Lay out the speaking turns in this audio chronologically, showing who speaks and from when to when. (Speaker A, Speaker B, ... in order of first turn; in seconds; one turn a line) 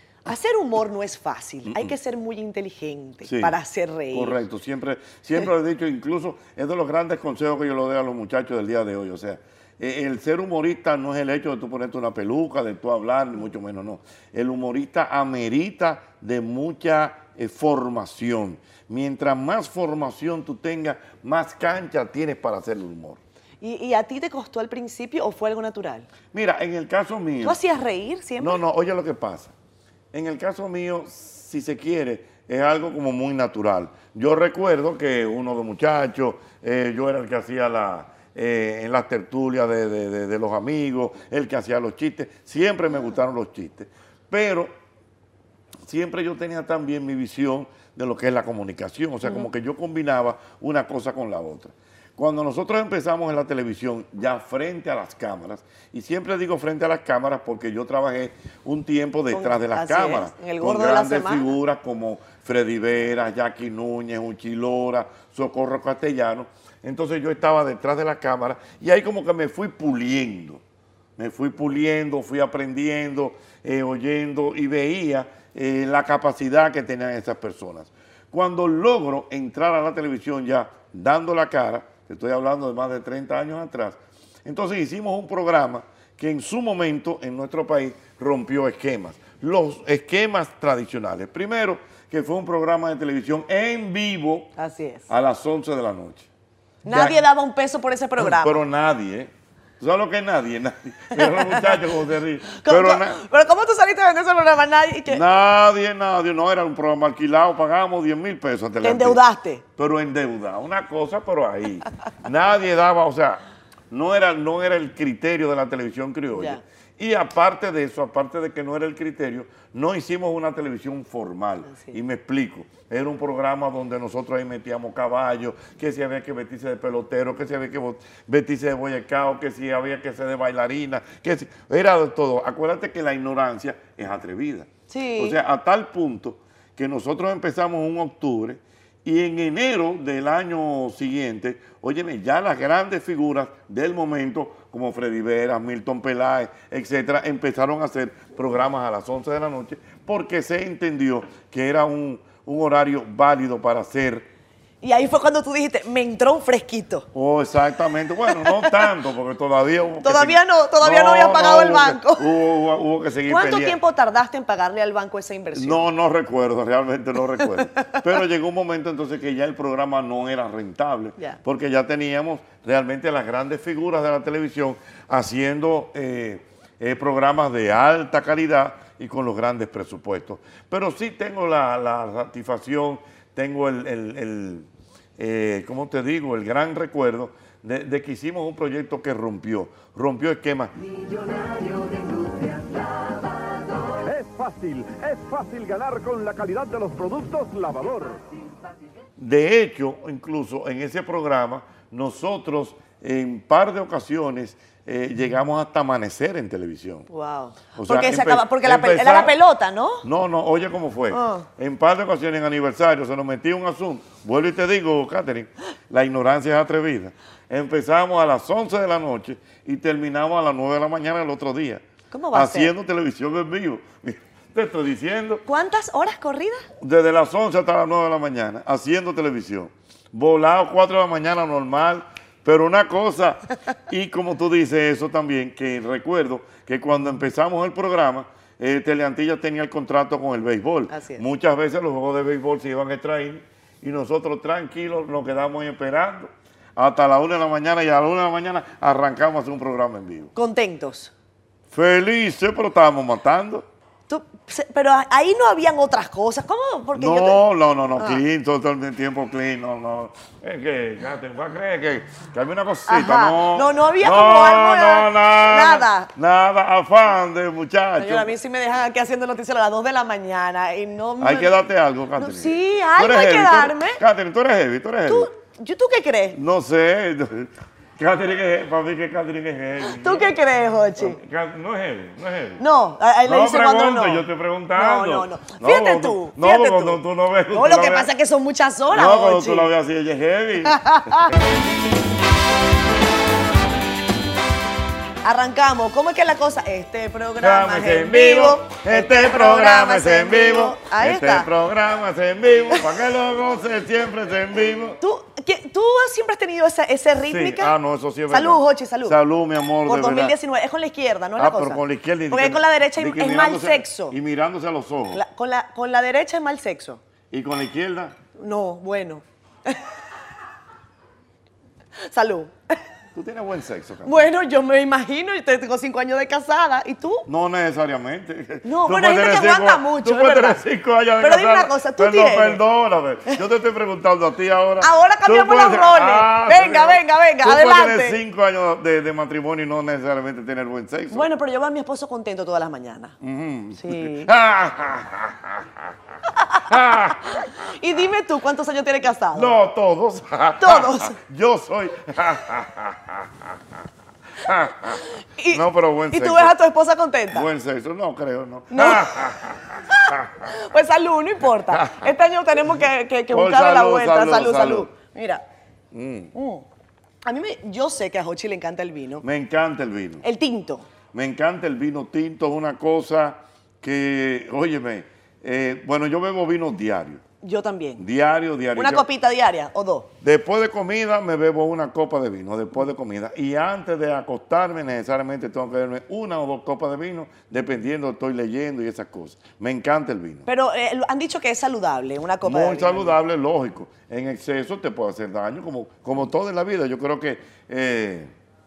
Speaker A: 0.2-4.4
Speaker B: 1.6-1.9
Speaker B: 3.2-3.5
Speaker B: 4.1-23.2
Speaker A: 23.6-26.1
Speaker B: 26.3-27.6
Speaker A: 27.4-28.6
Speaker B: 28.4-29.5
Speaker B: 30.1-44.7
Speaker B: 45.8-70.6
Speaker A: 59.3-61.5
Speaker B: 71.2-94.5
Speaker A: 94.6-95.1
Speaker B: 95.1-96.3
Speaker A: 96.8-98.6
Speaker B: 96.9-97.2
Speaker B: 98.2-103.2
Speaker A: 101.1-101.8
Speaker A: 102.5-105.2
Speaker B: 105.1-109.2
Speaker A: 108.8-109.6
Speaker B: 109.8-154.3
Speaker A: 116.3-116.6
Speaker A: 121.7-122.0
Speaker A: 134.9-135.4
Speaker A: 154.8-157.1
Speaker B: 157.1-163.8
Speaker A: 158.3-158.8
Speaker A: 160.0-162.3
Speaker A: 163.2-165.8
Speaker B: 165.5-184.7
Speaker A: 167.7-168.0
Speaker B: 185.2-190.7
Speaker C: 194.0-198.2
Speaker B: 199.2-207.1
Speaker A: 207.1-210.1
Speaker B: 207.8-209.3
Speaker B: 210.0-225.4
Speaker A: 211.1-211.5
Speaker A: 222.1-222.7
Speaker A: 225.4-226.7
Speaker B: 226.8-250.3
Speaker A: 240.9-241.2
Speaker A: 250.3-251.1
Speaker B: 251.7-253.7
Speaker A: 254.1-257.4
Speaker B: 256.9-268.3
Speaker A: 262.9-266.1
Speaker A: 268.0-271.6
Speaker B: 271.2-275.3
Speaker A: 272.1-274.0
Speaker A: 275.1-276.4
Speaker B: 276.3-280.4
Speaker A: 279.8-281.2
Speaker B: 281.0-282.6
Speaker A: 282.6-287.0
Speaker B: 283.2-288.1
Speaker A: 287.5-289.7
Speaker B: 288.9-291.4
Speaker A: 290.6-291.4
Speaker A: 295.2-301.5
Speaker B: 297.4-305.0
Speaker A: 305.0-307.7
Speaker B: 307.2-310.4
Speaker A: 308.3-309.2
Speaker A: 309.8-314.1
Speaker B: 311.4-315.2
Speaker A: 315.1-317.0
Speaker B: 317.3-318.1
Speaker A: 318.4-319.8
Speaker A: 322.0-322.8
Speaker B: 323.1-324.3
Speaker A: 324.0-327.3
Speaker B: 327.2-341.3
Speaker A: 328.6-330.6
Speaker A: 331.2-332.6
Speaker A: 334.8-338.2
Speaker A: 341.1-343.1
Speaker B: 343.2-345.7
Speaker A: 343.7-344.3
Speaker A: 346.3-349.5
Speaker B: 346.7-347.5
Speaker B: 349.3-353.3
Speaker A: 350.6-351.2
Speaker B: 354.4-356.5
Speaker A: 355.4-357.5
Speaker B: 357.3-360.5
Speaker A: 358.7-359.1
Speaker A: 359.9-365.4
Speaker B: 361.7-362.1
Speaker B: 363.3-364.9
Speaker B: 365.9-366.3
Speaker A: 366.3-366.6
Speaker A: 367.2-369.2
Speaker B: 369.2-370.2
Speaker A: 370.2-370.9
Speaker B: 371.1-377.2
Speaker A: 377.4-378.0
Speaker B: 378.0-379.1
Speaker A: 378.7-380.1
Speaker B: 380.2-390.4
Speaker A: 390.4-393.1
Speaker B: 392.4-398.3